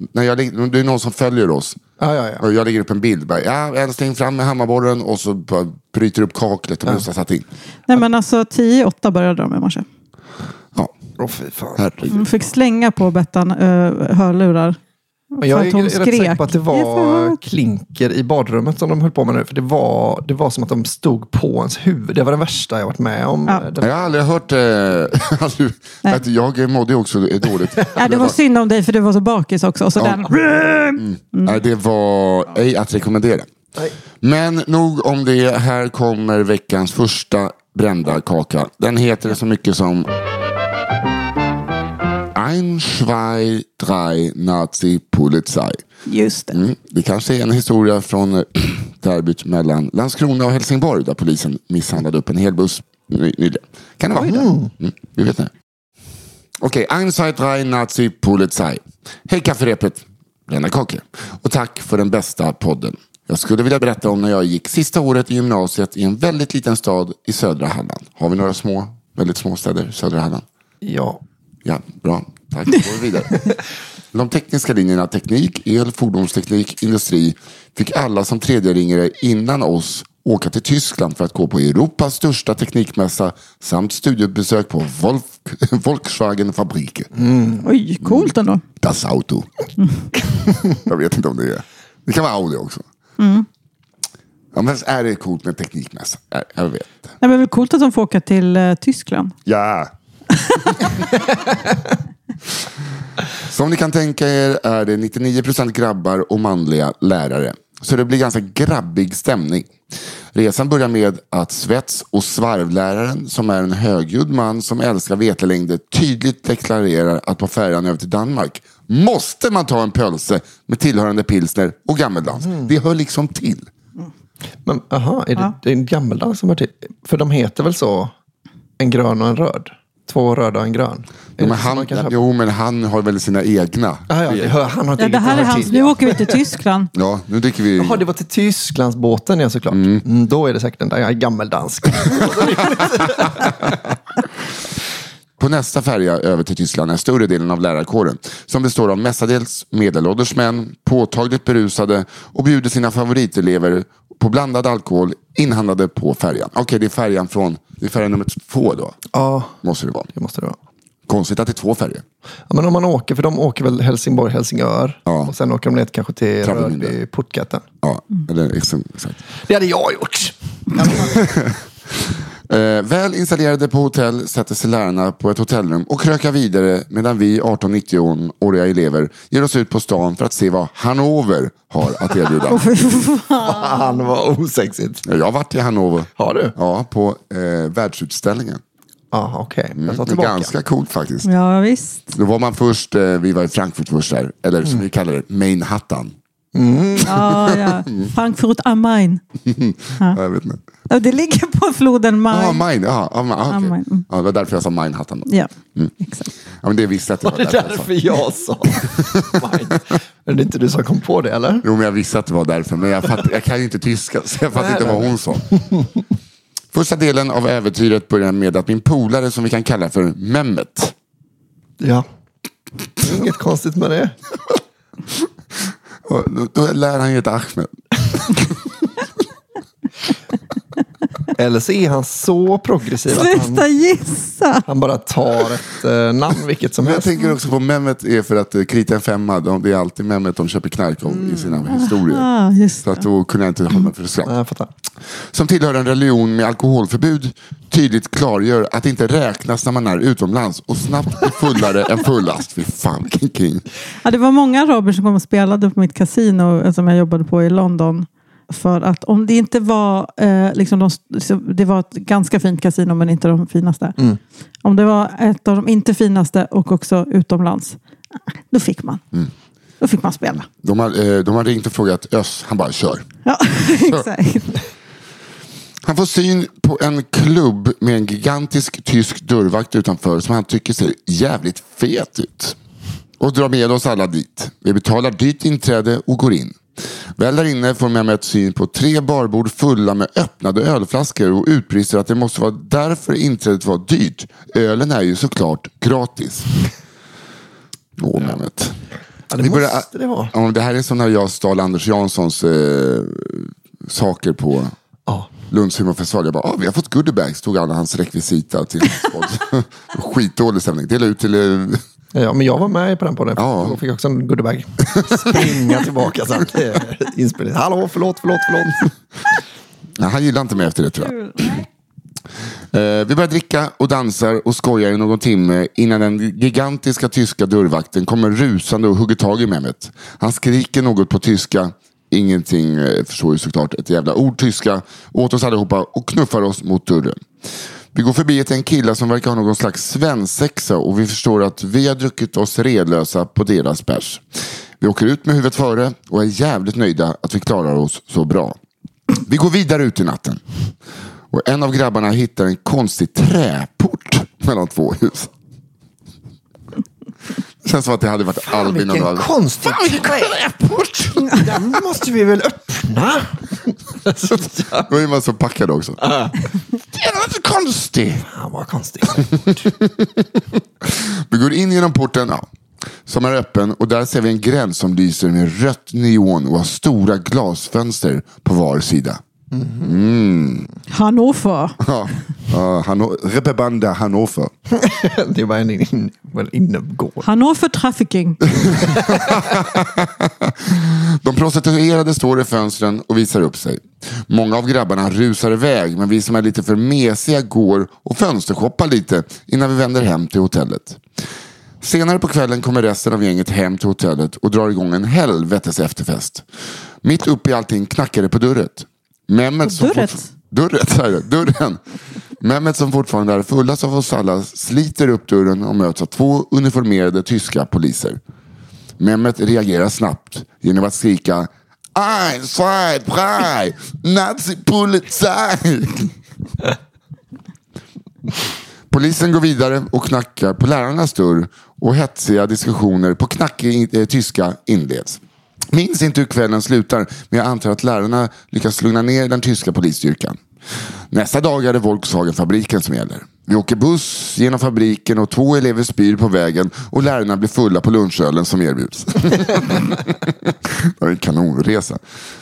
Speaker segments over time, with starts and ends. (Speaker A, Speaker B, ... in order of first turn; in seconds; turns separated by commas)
Speaker A: 0.1-1.8, Speaker B: 2.0-2.4, Speaker A: 2.4-7.5, Speaker C: 7.9-9.8, Speaker B: 11.2-12.2, Speaker A: 11.8-12.1, Speaker C: 12.1-14.8, Speaker C: 15.3-17.4, Speaker B: 15.4-23.9, Speaker A: 23.8-28.3, Speaker C: 27.9-31.6, Speaker A: 30.0-30.3, Speaker A: 31.0-33.5, Speaker A: 34.2-40.1, Speaker A: 42.3-45.8, Speaker C: 46.1-46.5, Speaker A: 46.5-55.5, Speaker B: 54.1-54.7, Speaker A: 56.6-70.4, Speaker B: 70.8-71.2, Speaker A: 71.6-73.5, Speaker A: 74.1-87.1, Speaker B: 87.1-87.6, Speaker C: 87.6-88.6, Speaker A: 88.0-89.5, Speaker C: 89.8-90.0, Speaker A: 90.7-92.8, Speaker C: 93.2-93.5, Speaker A: 94.5-97.1, Speaker C: 97.2-99.3, Speaker A: 99.5-99.9, Speaker A: 100.7-101.1, Speaker A: 103.4-109.7, Speaker A: 110.3-123.7, Speaker B: 122.4-122.7, Speaker B: 124.6-128.1, Speaker B: 128.8-132.2, Speaker A: 131.4-134.6, Speaker B: 134.1-136.3, Speaker C: 135.0-136.9, Speaker A: 135.3-135.6, Speaker A: 136.9-138.0, Speaker B: 137.8-143.8, Speaker A: 139.7-140.0, Speaker A: 145.4-159.0, Speaker B: 159.1-159.6, Speaker A: 159.6-160.1, Speaker B: 160.1-160.6, Speaker A: 161.1-162.0, Speaker B: 162.5-167.6, Speaker A: 165.1-165.3, Speaker A: 166.4-167.0, Speaker A: 167.8-169.3, Speaker B: 169.4-171.3, Speaker A: 170.9-182.6, Speaker C: 182.5-184.1, Speaker B: 183.4-185.0, Speaker A: 185.0-188.6, Speaker B: 186.2-186.5, Speaker B: 189.1-190.5, Speaker A: 189.8-191.3, Speaker C: 191.2-192.1, Speaker A: 192.1-196.1, Speaker B: 196.5-197.2, Speaker C: 197.0-199.2, Speaker A: 197.3-198.1, Speaker A: 199.5-200.6, Speaker C: 200.9-202.6, Speaker A: 202.3-205.9, Speaker C: 203.5-204.0, Speaker C: 206.0-206.3, Speaker A: 206.6-207.9, Speaker B: 207.2-211.6, Speaker A: 208.7-209.7, Speaker A: 211.6-215.5, Speaker B: 214.5-215.9, Speaker A: 216.7-220.9, Speaker B: 221.8-222.1, Speaker B: 223.0-224.1, Speaker A: 226.1-228.6, Speaker B: 231.3-233.7, Speaker C: 233.1-234.6, Speaker B: 234.7-237.1, Speaker A: 236.8-242.3, Speaker B: 241.1-241.6, Speaker C: 241.7-243.0, Speaker A: 242.8-244.3, Speaker B: 244.2-244.7, Speaker A: 245.3-253.6, Speaker C: 254.0-264.0, Speaker C: 264.6-267.8, Speaker C: 268.5-269.0, Speaker C: 269.8-270.5, Speaker A: 270.6-273.1, Speaker C: 273.2-274.5, Speaker A: 273.7-274.1, Speaker A: 275.8-282.6, Speaker A: 283.2-286.6, Speaker A: 287.2-296.5, Speaker A: 298.0-298.8, Speaker B: 299.3-300.3, Speaker A: 299.4-304.7, Speaker B: 305.1-305.3, Speaker A: 305.5-311.8, Speaker B: 312.1-318.9, Speaker A: 313.4-313.8, Speaker A: 314.9-315.6, Speaker A: 320.0-321.6, Speaker C: 320.9-321.6, Speaker A: 322.7-337.2, Speaker A: 337.9-344.2, Speaker A: 344.8-348.5, Speaker A: 349.2-350.4, Speaker A: 351.3-355.3, Speaker A: 357.6-361.5, Speaker B: 358.4-364.9, Speaker A: 364.8-366.3, Speaker A: 366.9-368.2, Speaker B: 368.2-369.7, Speaker A: 369.1-372.5, Speaker A: 373.1-379.2, Speaker B: 379.5-379.9, Speaker A: 379.8-380.7, Speaker C: 380.9-381.8, Speaker A: 381.8-384.5, Speaker B: 384.7-387.3, Speaker C: 387.2-388.4, Speaker A: 388.6-401.0, Speaker B: 388.9-389.4, Speaker A: 401.8-406.4, Speaker A: 407.0-411.8, Speaker C: 409.6-410.3, Speaker A: 412.4-418.2, Speaker A: 419.0-426.1, Speaker A: 428.9-435.2, Speaker A: 435.7-452.0